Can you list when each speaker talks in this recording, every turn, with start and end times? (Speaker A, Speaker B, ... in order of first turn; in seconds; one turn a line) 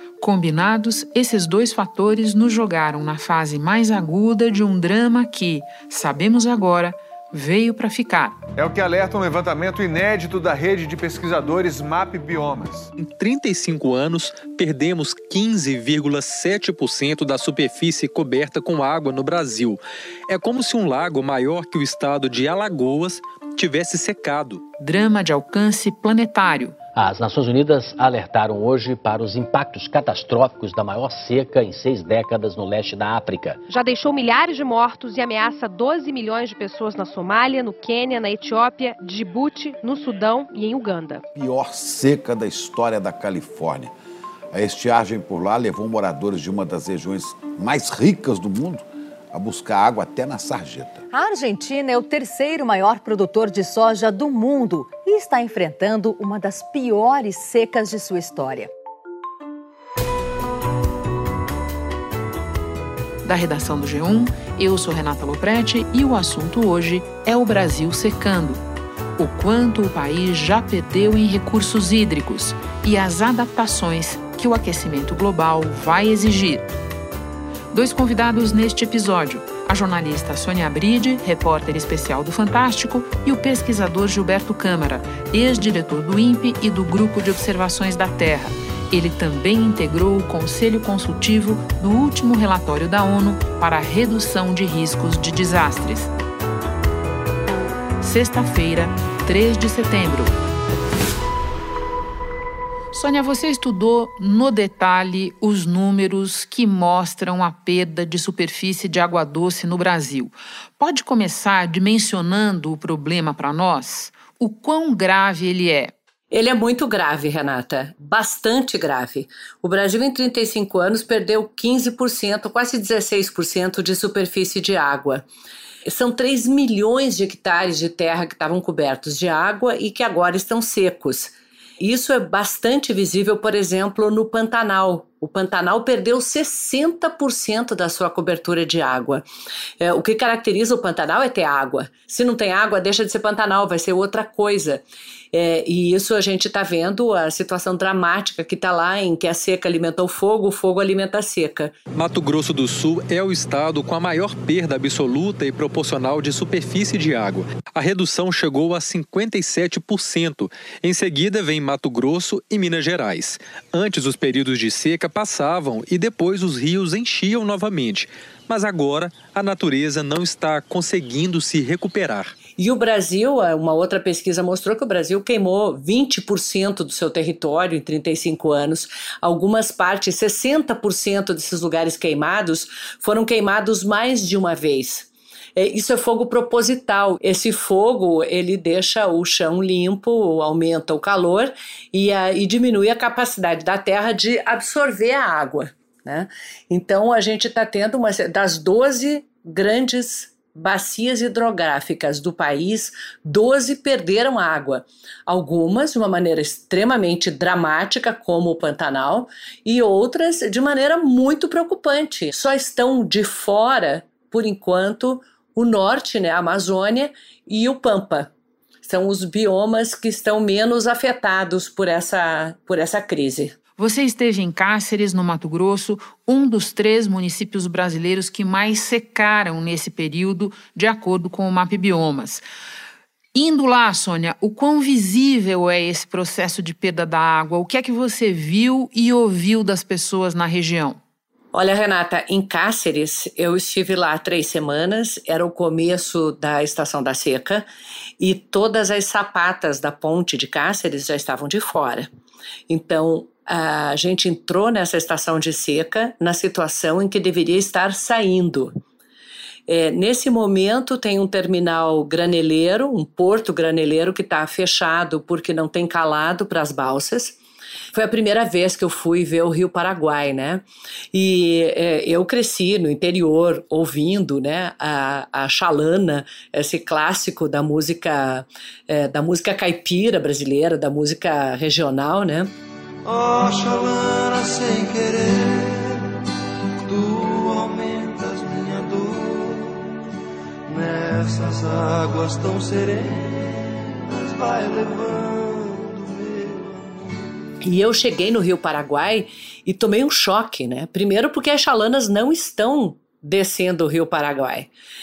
Speaker A: 0.2-8.4
Speaker B: 8.7-10.8
Speaker B: 12.0-12.4
Speaker C: 13.0-24.6
Speaker A: 24.8-26.8
Speaker D: 26.9-33.6
Speaker E: 33.7-41.2
Speaker F: 41.3-43.9
Speaker F: 44.5-51.0
Speaker G: 51.1-58.7
Speaker A: 63.2-68.6
Speaker A: 69.2-76.7
Speaker A: 77.7-96.1
Speaker A: 98.0-100.3
Speaker A: 102.9-115.9
Speaker H: 116.3-125.2
Speaker H: 125.8-139.2
Speaker H: 139.8-151.7
Speaker C: 151.9-172.3
Speaker H: 172.6-218.3
Speaker H: 218.8-223.6
Speaker A: 223.8-232.4
Speaker A: 233.3-241.0
Speaker H: 241.5-247.7
Speaker H: 248.2-252.1
Speaker H: 252.7-258.7
Speaker H: 259.7-267.4
Speaker H: 267.9-282.5
Speaker I: 283.1-286.1
Speaker I: 286.9-289.8
Speaker I: 290.7-297.2
Speaker H: 297.6-304.7